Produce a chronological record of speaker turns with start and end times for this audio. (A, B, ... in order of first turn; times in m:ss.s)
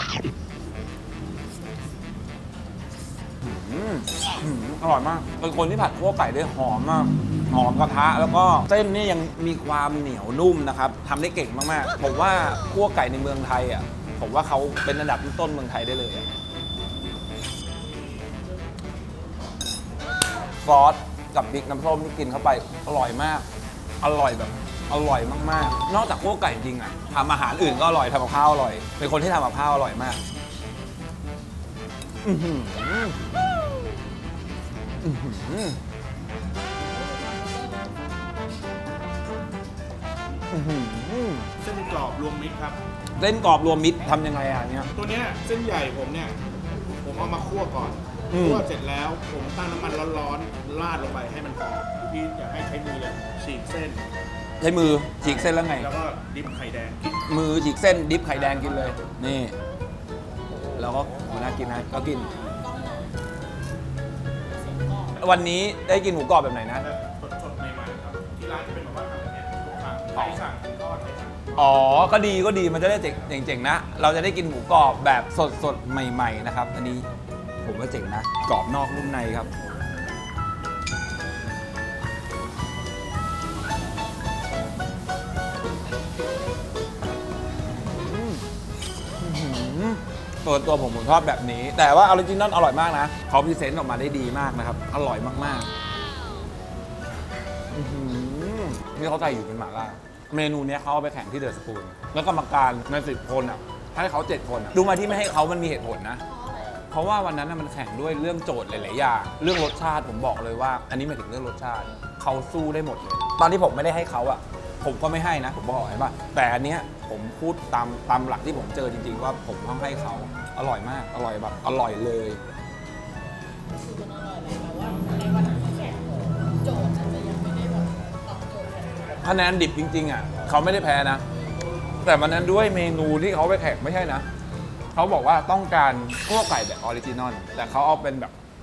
0:03.4-0:16.3 A
0:20.6-0:23.4 A
0:24.0-0:30.2 A
0:32.2-0:33.2 A
0:35.0-0:35.8 A
0:37.0-0:37.9 B
0:40.5-0:41.5 A
0:41.6-0:42.8 C
0:43.2-0:44.9 A
0:44.9-0:46.3 C
0:47.0-0:54.0 C
0:48.3-0:48.6 A
0:54.6-0:55.9 A
0:55.2-0:57.2 C
0:57.3-0:59.5 A
0:58.4-0:58.9 C
1:00.7-1:02.5 A
1:02.6-1:03.1 B
1:04.6-1:05.1 B
1:05.2-1:06.8 A
1:06.8-1:11.7 C
1:11.6-1:17.0 A
1:17.6-1:19.5 A
1:27.8-1:28.4 A
1:29.2-1:35.7 A
1:37.7-2:02.4 A
2:03.8-2:09.1 B
2:09.2-2:11.2 A
2:12.0-2:14.2 A
2:14.9-2:18.3 A